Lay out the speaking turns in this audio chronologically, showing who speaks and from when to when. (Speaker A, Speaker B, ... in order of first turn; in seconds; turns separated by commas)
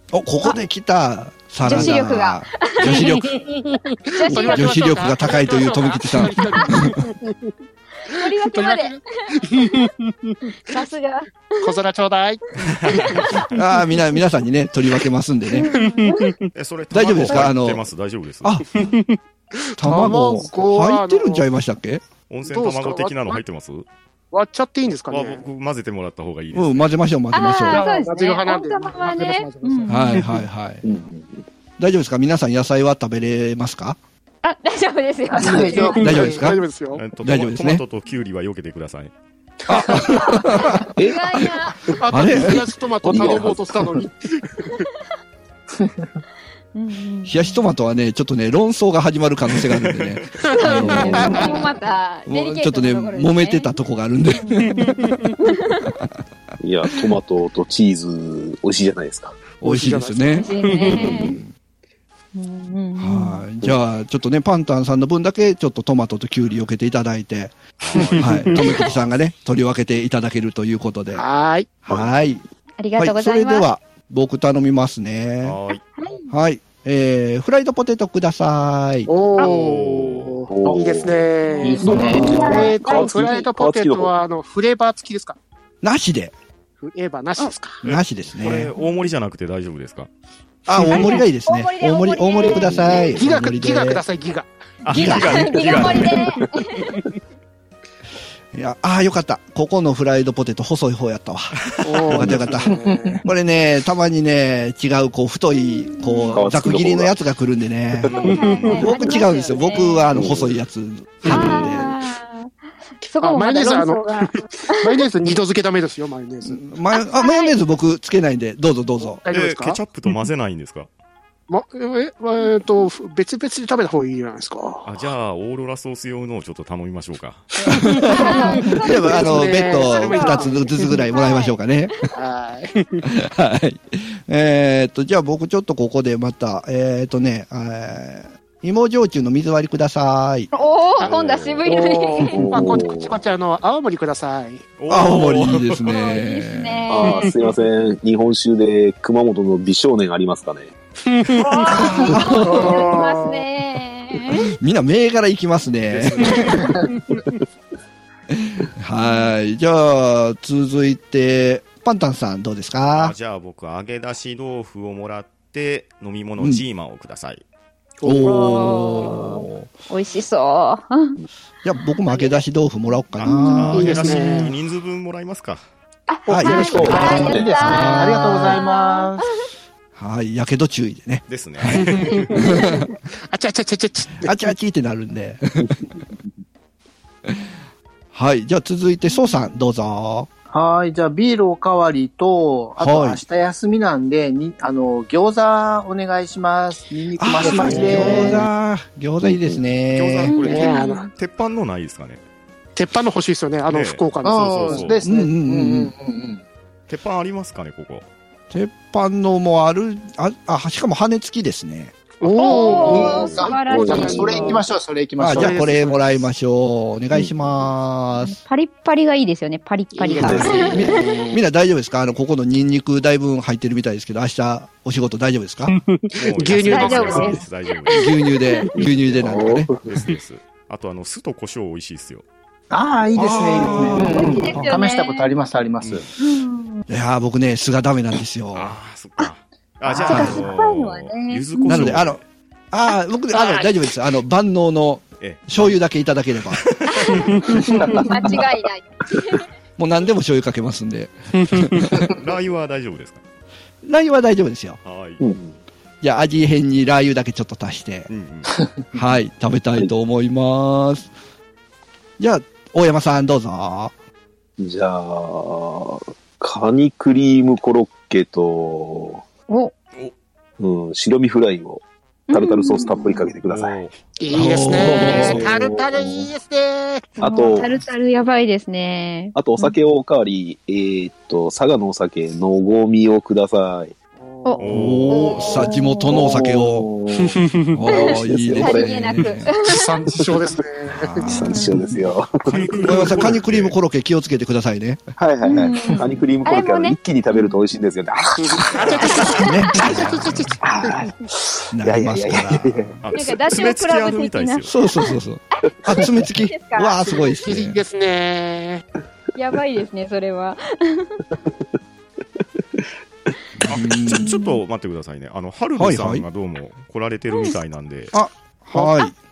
Speaker A: 0.1-3.4, Speaker B: 1.6-3.2, Speaker C: 2.9-7.5, Speaker B: 4.1-4.8, Speaker A: 4.3-7.0, Speaker B: 8.1-9.9, Speaker C: 8.2-10.4, Speaker B: 10.7-11.8, Speaker C: 11.6-13.4, Speaker D: 12.8-13.2, Speaker B: 13.3-14.2, Speaker A: 13.5-15.7, Speaker B: 15.5-16.3, Speaker C: 15.7-16.5, Speaker D: 16.5-18.6, Speaker A: 16.9-17.9, Speaker C: 18.8-21.4, Speaker A: 19.8-22.0, Speaker D: 22.3-23.9, Speaker C: 22.5-23.4, Speaker C: 24.3-25.5, Speaker D: 25.1-26.9, Speaker A: 26.5-27.8, Speaker B: 27.3-30.3, Speaker C: 27.7-30.3, Speaker A: 29.9-30.8, Speaker E: 30.8-31.4, Speaker A: 31.8-34.0, Speaker B: 34.4-36.3, Speaker F: 35.4-36.4, Speaker C: 35.4-37.0, Speaker A: 36.0-36.6, Speaker D: 37.0-39.1, Speaker A: 37.2-37.8, Speaker C: 39.7-40.5, Speaker A: 39.7-40.9, Speaker B: 40.4-41.8, Speaker E: 41.0-41.5, Speaker C: 41.9-44.8, Speaker A: 42.1-42.6, Speaker E: 43.0-44.0, Speaker B: 46.8-47.6, Speaker A: 47.3-51.5, Speaker D: 49.7-50.2, Speaker C: 50.5-51.6, Speaker B: 50.5-53.8, Speaker A: 52.3-54.9, Speaker B: 54.3-55.9, Speaker C: 54.8-55.3, Speaker E: 56.6-59.4, Speaker C: 59.6-61.2, Speaker A: 59.6-61.5, Speaker B: 60.4-61.4, Speaker E: 61.0-61.4, Speaker B: 62.4-63.5, Speaker A: 63.0-67.6, Speaker D: 67.8-69.1, Speaker C: 68.0-68.2, Speaker A: 68.1-71.2, Speaker C: 71.1-71.7, Speaker A: 71.9-72.4, Speaker B: 72.8-73.7, Speaker A: 73.0-75.6, Speaker D: 75.4-75.8, Speaker B: 76.0-76.3, Speaker A: 76.3-79.1, Speaker C: 79.1-85.4, Speaker D: 79.4-80.4, Speaker E: 80.5-84.1, Speaker B: 81.5-83.2, Speaker F: 81.6-82.6, Speaker A: 85.8-86.3, Speaker C: 86.8-87.8, Speaker A: 87.8-88.7, Speaker D: 87.8-90.1, Speaker A: 90.7-94.0, Speaker B: 90.9-93.1, Speaker E: 92.5-93.0, Speaker C: 93.1-94.5, Speaker D: 94.8-96.4, Speaker A: 94.9-96.0, Speaker B: 94.9-96.9, Speaker A: 98.5-102.7, Speaker C: 101.8-103.2, Speaker E: 102.1-102.4, Speaker F: 102.7-103.2, Speaker A: 103.2-111.9, Speaker B: 105.5-106.4, Speaker E: 106.3-107.2, Speaker D: 108.1-108.9, Speaker B: 108.2-110.1, Speaker C: 108.3-108.8, Speaker E: 110.1-110.6, Speaker B: 111.3-115.0, Speaker C: 113.2-116.6, Speaker A: 116.5-119.2, Speaker B: 116.9-117.6, Speaker C: 119.0-120.1, Speaker D: 119.3-120.9, Speaker C: 121.5-125.0, Speaker D: 124.8-127.5, Speaker C: 127.7-131.0, Speaker A: 127.8-131.9, Speaker B: 128.1-132.1, Speaker C: 132.1-133.0, Speaker A: 133.1-140.5, Speaker B: 140.5-142.4, Speaker D: 141.0-141.8, Speaker C: 141.7-144.6, Speaker E: 142.2-143.2, Speaker D: 144.8-145.9, Speaker A: 144.9-146.9, Speaker B: 145.8-147.3, Speaker E: 146.9-150.7, Speaker C: 147.0-147.3, Speaker C: 151.1-153.5, Speaker B: 151.5-154.6, Speaker A: 151.7-152.7, Speaker A: 154.5-156.7, Speaker D: 155.9-156.8, Speaker C: 156.6-157.2, Speaker A: 158.5-163.2, Speaker B: 159.0-159.3, Speaker D: 162.9-167.4, Speaker A: 166.4-166.6, Speaker C: 168.0-168.9, Speaker A: 168.0-169.7, Speaker B: 168.2-171.2, Speaker A: 171.6-174.4, Speaker B: 172.1-172.4, Speaker D: 173.2-175.6, Speaker B: 173.2-173.9, Speaker C: 173.7-174.5, Speaker B: 176.1-179.5, Speaker A: 176.3-178.6, Speaker E: 176.4-177.6, Speaker C: 176.5-177.3, Speaker F: 176.9-179.2, Speaker A: 180.0-182.9, Speaker D: 181.3-182.5, Speaker C: 181.9-182.6, Speaker B: 182.4-182.8, Speaker C: 183.3-184.5, Speaker A: 184.2-185.8, Speaker A: 188.1-190.3, Speaker B: 189.1-189.5, Speaker F: 190.5-198.4, Speaker A: 192.8-193.2, Speaker A: 197.2-200.3, Speaker C: 197.4-198.3, Speaker E: 197.6-198.4, Speaker E: 199.2-199.6, Speaker D: 199.9-202.2, Speaker B: 200.2-201.1, Speaker C: 200.4-201.1, Speaker C: 202.8-204.9, Speaker D: 203.7-204.0, Speaker F: 204.2-206.4, Speaker D: 204.6-205.0, Speaker A: 205.0-205.9, Speaker D: 206.9-208.1, Speaker A: 208.5-211.9, Speaker C: 212.2-213.2, Speaker D: 212.2-213.6, Speaker B: 212.4-214.6, Speaker F: 212.8-215.7, Speaker E: 213.0-214.4, Speaker C: 213.8-214.6, Speaker A: 215.2-218.4, Speaker C: 215.3-216.2, Speaker E: 217.1-217.5, Speaker B: 218.2-221.2, Speaker C: 219.9-221.4, Speaker E: 220.2-220.9, Speaker A: 220.3-225.8, Speaker C: 225.7-227.4, Speaker D: 226.2-228.2, Speaker B: 226.6-228.7, Speaker A: 227.9-229.7, Speaker E: 228.8-230.0, Speaker D: 228.8-232.2, Speaker F: 232.7-236.1, Speaker A: 233.2-234.7, Speaker B: 233.9-235.3, Speaker B: 236.2-236.8, Speaker A: 236.9-238.8, Speaker D: 238.5-242.2, Speaker B: 239.9-242.0, Speaker A: 240.1-240.4, Speaker A: 241.7-242.2, Speaker A: 242.7-246.6, Speaker D: 245.2-245.8, Speaker D: 246.5-247.6, Speaker B: 246.9-249.5, Speaker A: 249.8-252.1, Speaker C: 251.4-251.9, Speaker D: 252.0-253.2, Speaker A: 253.8-254.8, Speaker D: 254.8-255.4, Speaker E: 255.2-255.6, Speaker A: 256.0-258.1, Speaker D: 258.1-258.6, Speaker A: 258.9-261.1, Speaker A: 262.2-263.9, Speaker E: 264.6-269.2, Speaker B: 269.5-269.7, Speaker E: 270.6-273.8, Speaker B: 272.3-273.3, Speaker D: 273.4-273.9, Speaker C: 274.2-277.2, Speaker A: 274.3-275.4, Speaker E: 274.7-276.3, Speaker B: 277.2-279.8, Speaker E: 277.2-277.8, Speaker E: 279.3-283.9, Speaker C: 284.2-284.6, Speaker B: 284.4-286.2, Speaker D: 284.6-285.6, Speaker A: 284.7-286.9, Speaker E: 286.1-289.2, Speaker C: 287.2-287.7, Speaker A: 287.7-289.5, Speaker B: 287.9-289.9, Speaker C: 289.6-291.3, Speaker A: 290.9-291.7, Speaker E: 291.2-292.7, Speaker B: 291.4-291.8, Speaker D: 292.5-293.8, Speaker A: 292.8-295.0, Speaker E: 295.2-299.2, Speaker B: 295.4-297.6, Speaker C: 298.4-300.9, Speaker B: 299.0-299.8, Speaker A: 299.4-300.5, Speaker E: 300.6-303.0, Speaker A: 301.7-303.0, Speaker D: 303.0-304.7, Speaker B: 303.1-307.4, Speaker A: 304.6-307.8, Speaker C: 307.4-308.8, Speaker B: 309.4-311.2, Speaker A: 313.6-314.3, Speaker D: 313.7-318.1, Speaker B: 314.2-314.6, Speaker A: 315.8-316.2, Speaker B: 317.3-317.6, Speaker A: 318.1-319.1, Speaker B: 318.8-319.1